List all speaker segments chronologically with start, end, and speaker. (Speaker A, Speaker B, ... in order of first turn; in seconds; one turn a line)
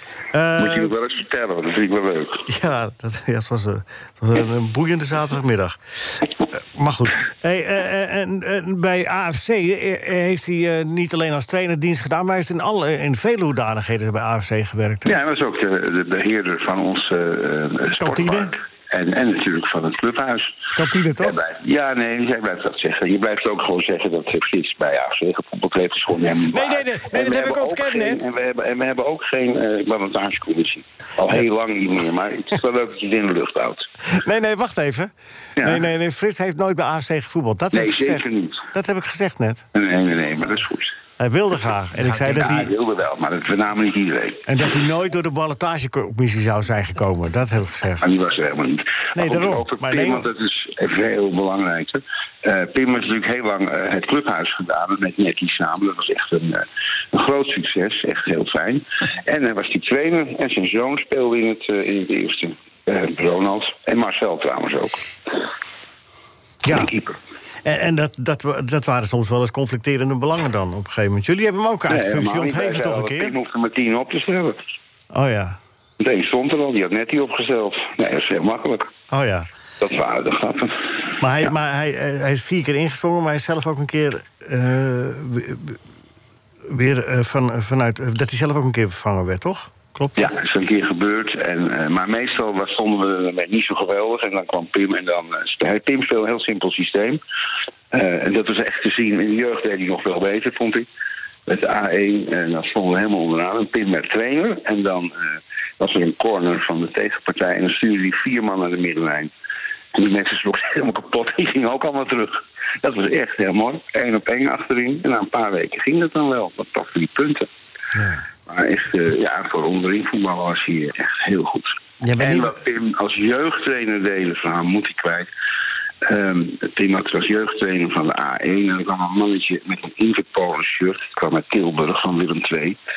Speaker A: 0.3-0.9
Speaker B: 0.6-2.4
Speaker A: 2.5-15.2
Speaker B: 15.0-20.5
Speaker A: 18.0-18.5
Speaker A: 20.7-21.4
Speaker B: 21.2-33.9
Speaker A: 26.5-28.2
Speaker A: 34.0-39.6
Speaker B: 37.7-38.7
Speaker B: 39.7-40.9
Speaker A: 41.2-42.7
Speaker B: 42.0-44.4
Speaker A: 44.5-48.1
Speaker B: 48.0-65.0
Speaker A: 49.1-50.3
Speaker A: 66.6-66.9
Speaker B: 66.6-67.2
Speaker A: 67.6-73.3
Speaker B: 71.9-74.6
Speaker A: 75.1-75.6
Speaker B: 76.0-78.9
Speaker A: 79.1-79.5
Speaker B: 79.8-81.5
Speaker A: 81.2-85.8
Speaker A: 86.7-90.3
Speaker B: 90.2-97.2
Speaker B: 97.9-100.9
Speaker B: 101.5-109.3
Speaker B: 109.9-117.5
Speaker A: 117.9-118.2
Speaker B: 118.5-125.3
Speaker A: 122.0-122.6
Speaker B: 126.0-132.8